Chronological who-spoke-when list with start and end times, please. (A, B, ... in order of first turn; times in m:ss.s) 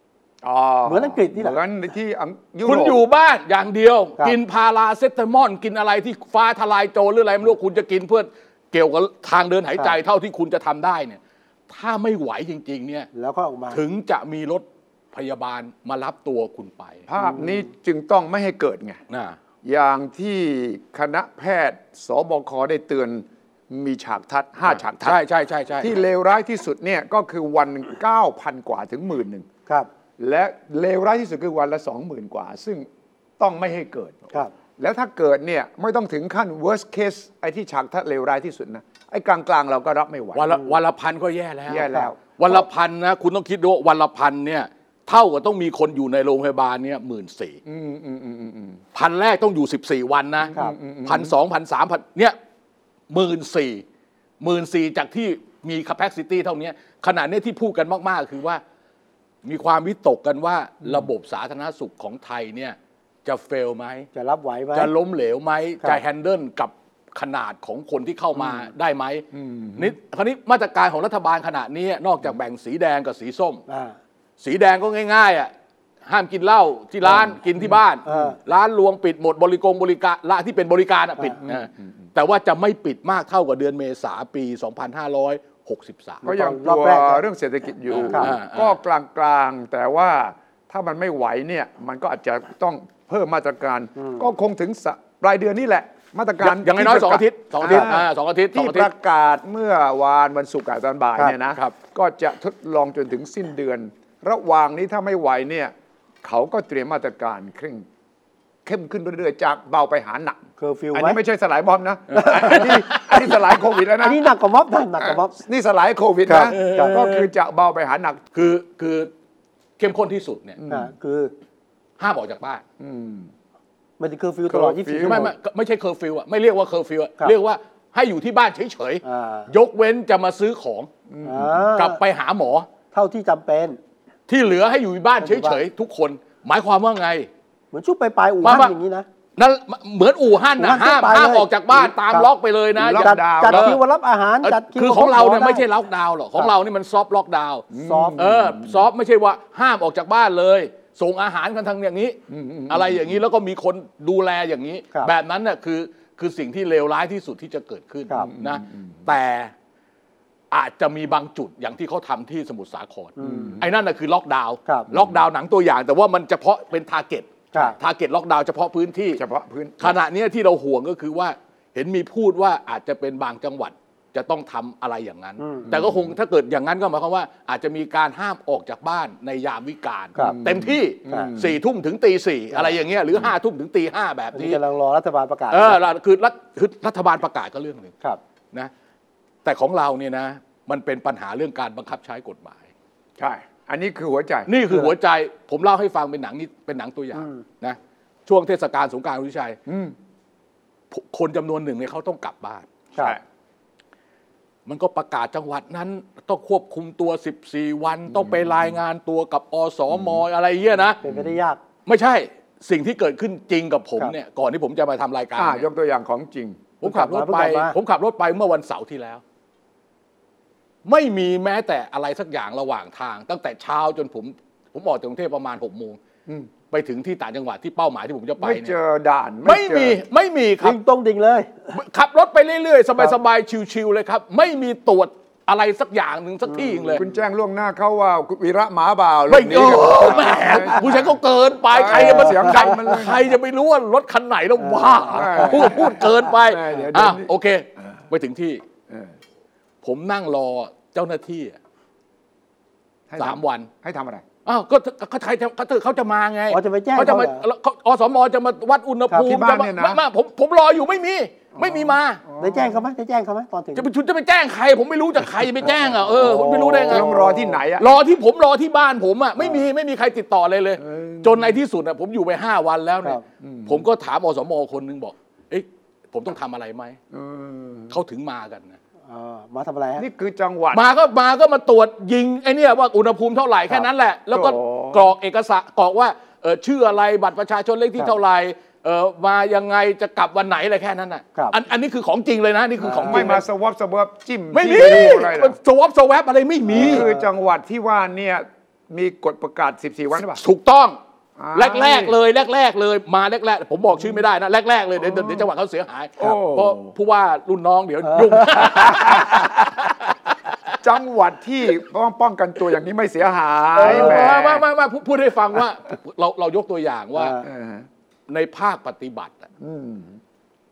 0:00.4-0:03.0 A
0:00.8-0:01.6 B
0:02.6-0:13.1 C
0:13.1-0:13.8 B
0:13.7-0:17.0 C
0:17.1-0:19.0 A
0:17.2-0:17.6 B
0:19.1-0:19.4 C
0:19.6-0:25.2 A
0:24.8-0:26.0 C
0:25.8-0:29.4 A
0:30.2-0:32.9 A
0:33.4-0:40.5 A
0:40.3-0:47.6 C
0:41.7-0:42.6 A
0:47.6-0:48.8 A
0:48.9-0:52.4 C
0:50.4-0:51.3 A
0:53.1-0:53.8 C
0:54.4-0:58.6 C
0:59.4-1:04.1 C
1:00.8-1:01.1 A
1:04.1-1:04.9 B
1:04.7-1:09.2 C
1:09.3-1:09.9 A
1:09.8-1:13.6 C
1:13.7-1:14.0 B
1:14.4-1:15.5 C
1:16.0-1:26.2 C
1:18.0-1:18.4 B
1:21.4-1:21.9 A
1:26.2-1:27.2 B
1:26.2-1:47.8 A
1:27.9-1:28.8 C
1:28.0-1:28.3 B
1:36.4-1:38.9 C
1:37.6-1:37.9 B
1:48.6-1:50.4 A
1:50.6-1:51.2 B
1:50.9-1:54.2 A
1:52.1-1:53.1 B
1:52.2-1:53.2 C
1:54.0-1:55.3 B
1:55.0-1:58.2 A
1:56.3-1:57.0 B
1:56.5-1:57.3 C
1:58.3-1:59.1 C
1:59.8-2:00.6 C
2:00.6-2:00.9 A
2:00.7-2:01.3 B
2:02.0-2:02.6 C
2:02.8-2:03.3 A
2:04.0-2:05.3 B
2:04.5-2:05.3 A
2:05.0-2:10.9 C
2:09.0-2:09.5 B
2:11.1-2:11.7 A
2:11.2-2:12.0 B
2:11.8-2:12.7 C
2:12.9-2:13.8 B
2:14.3-2:17.3 C
2:15.2-2:15.6 B
2:17.7-2:19.0 B
2:18.4-2:18.7 C
2:19.4-2:23.8 C
2:20.6-2:22.3 B
2:22.8-2:23.8 A
2:22.9-2:25.6 B
2:24.4-2:39.5 C
2:27.7-2:28.8 A
2:27.8-2:28.2 B
2:32.3-2:33.2 A
2:38.2-2:39.1 A
2:40.5-2:49.2 C
2:43.2-2:43.6 B
2:43.2-2:43.7 A
2:44.9-2:45.2 A
2:49.2-2:50.0 A
2:49.8-3:04.6 C
2:55.4-2:55.7 B
2:55.7-2:56.0 A
3:00.2-3:01.6 A
3:04.3-3:05.8 B
3:05.5-3:07.9 C
3:09.4-3:12.6 C
3:13.2-3:14.5 A
3:14.5-3:19.6 C
3:17.1-3:17.4 B
3:19.7-3:19.9 A
3:20.9-3:22.7 C
3:24.6-3:31.0 C
3:28.1-3:28.4 A
3:29.9-3:30.2 A
3:31.0-3:31.6 B
3:31.0-3:31.3 A
3:31.8-3:35.6 C
3:35.4-3:36.7 A
3:36.8-3:39.2 C
3:36.8-3:37.8 B
3:40.8-3:46.0 C
3:46.7-3:48.7 C
3:48.4-3:50.0 A
3:49.4-3:50.8 C
3:50.6-3:51.8 B
3:51.7-3:57.0 C
3:56.5-3:57.2 B
3:57.0-4:01.2 A
3:59.3-4:08.6 C
4:01.7-4:03.3 A
4:01.9-4:03.0 B
4:04.6-4:06.8 B
4:05.1-4:07.3 A
4:09.8-4:11.6 C
4:13.1-4:14.2 A
4:13.2-4:13.7 C
4:14.4-4:22.2 C
4:16.5-4:17.4 B
4:19.2-4:20.0 A
4:21.6-4:22.8 A
4:22.4-4:23.8 B
4:23.8-4:27.1 C
4:26.0-4:27.5 B
4:26.9-4:28.0 A
4:27.8-4:37.0 C
4:30.8-4:31.6 A
4:33.4-4:33.8 A
4:37.1-4:37.9 A
4:37.9-4:38.8 C
4:39.1-4:40.0 B
4:40.0-4:40.8 A
4:40.7-4:53.4 C
4:44.3-4:45.1 A
4:52.8-4:53.4 B
4:52.9-4:55.6 A
4:54.5-4:57.0 C
4:54.7-4:55.2 B
4:56.7-4:57.2 B
4:56.7-5:00.4 A
5:00.2-5:01.0 C
5:01.4-5:02.2 A
5:01.5-5:10.7 C
5:05.0-5:05.4 A
5:06.2-5:06.9 A
5:08.1-5:08.7 B
5:08.6-5:09.6 A
5:10.8-5:14.6 A
5:13.8-5:17.4 C
5:13.8-5:14.2 B
5:17.2-5:17.5 B
5:17.4-5:17.8 A
5:18.3-5:19.5 C
5:19.6-5:20.2 A